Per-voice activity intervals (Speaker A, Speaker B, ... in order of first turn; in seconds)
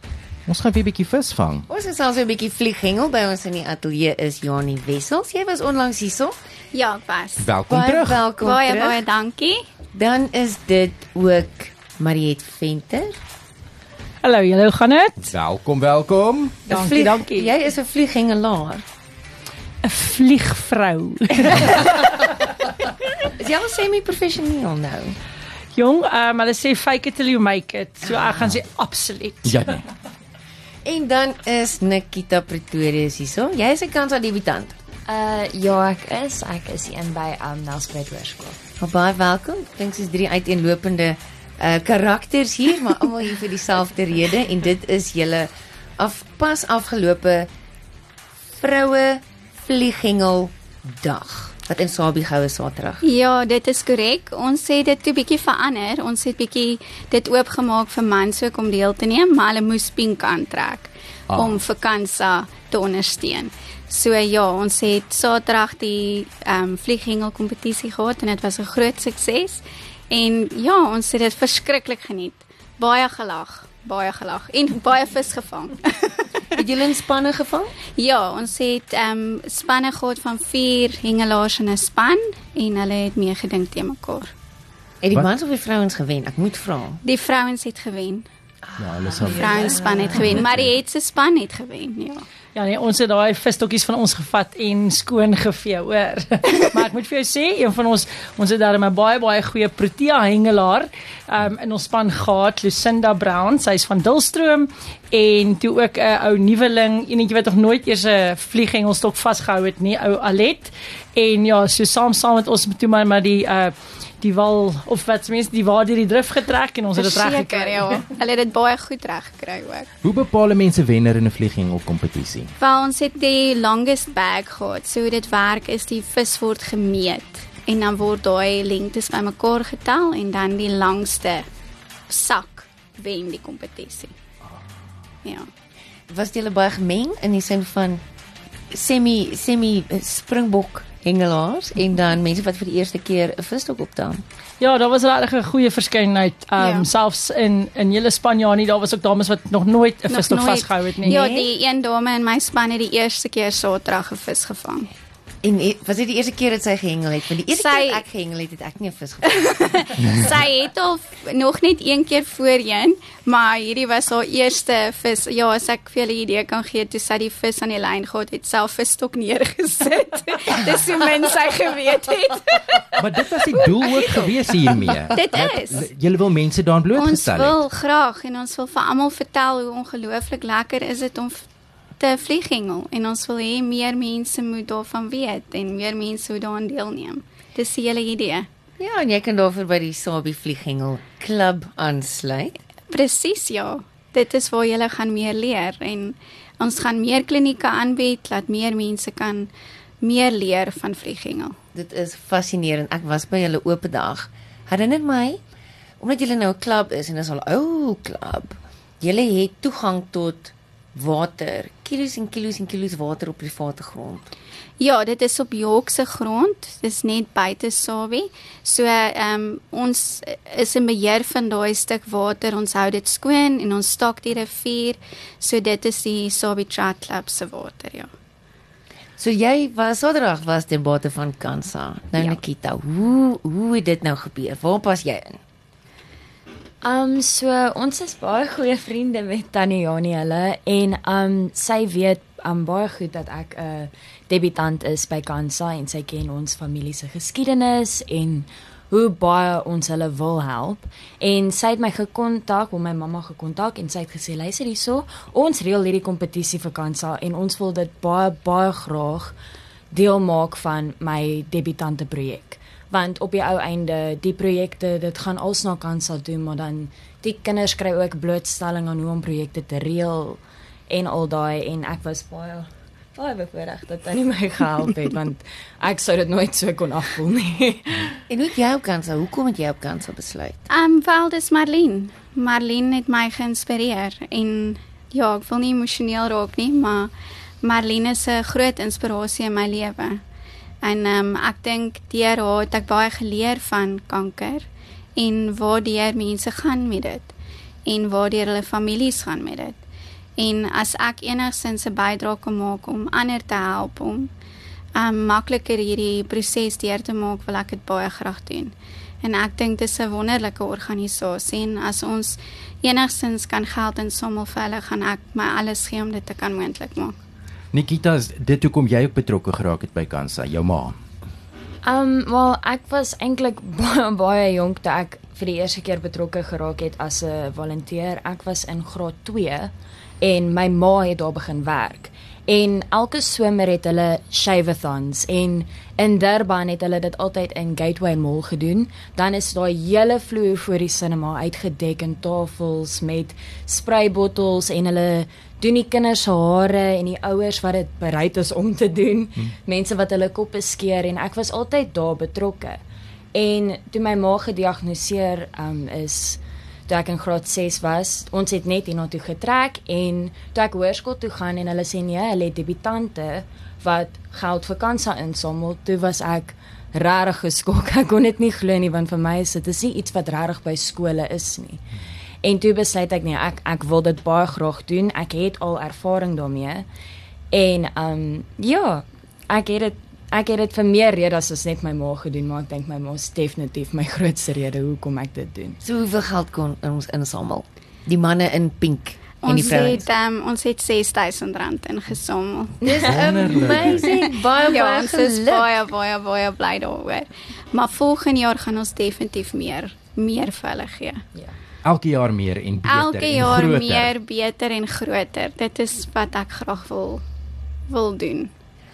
Speaker A: 0.5-1.7, 7.4-8.3, 15.3-16.6, 29.4-29.8, 88.8-90.7, 120.0-122.5, 173.0-177.6, 317.7-321.0, 393.0-394.1, 401.8-404.1
Speaker B: 1.7-6.3, 7.7-9.1, 9.9-13.2, 16.7-18.8, 23.4-25.2, 30.8-34.8, 38.8-47.5, 48.6-53.0, 76.5-77.7, 85.0-87.0, 89.0-90.5, 136.1-138.0, 138.7-144.2, 151.1-151.5, 155.4-160.3, 188.8-192.6, 201.8-205.4, 206.0-214.3, 229.2-235.4, 278.3-280.7, 385.8-390.1, 392.8-395.7
Speaker C: 6.7-7.5, 8.4-9.6, 53.0-76.3, 78.0-84.3, 87.0-88.3, 89.3-92.3, 117.0-119.9, 122.6-131.5, 132.1-134.1, 135.2-135.5, 146.6-146.9, 150.1-154.9, 157.5-158.0, 159.3-174.2, 175.1-175.8, 176.9-181.4, 182.0-188.5, 192.9-199.5, 200.0-201.6, 214.8-228.1, 280.7-290.2, 290.8-297.3, 297.9-299.8, 300.4-304.3, 305.0-317.2, 389.4-392.8, 394.5-401.2, 402.9-407.2, 407.9-408.5
Speaker D: 14.2-15.3, 16.7-17.5, 19.8-22.4, 25.8-29.8, 92.5-118.0, 144.6-151.3
Speaker E: 35.1-38.6, 236.8-259.4, 259.9-278.1, 321.8-352.8, 353.3-371.8, 372.4-376.9, 377.5-385.8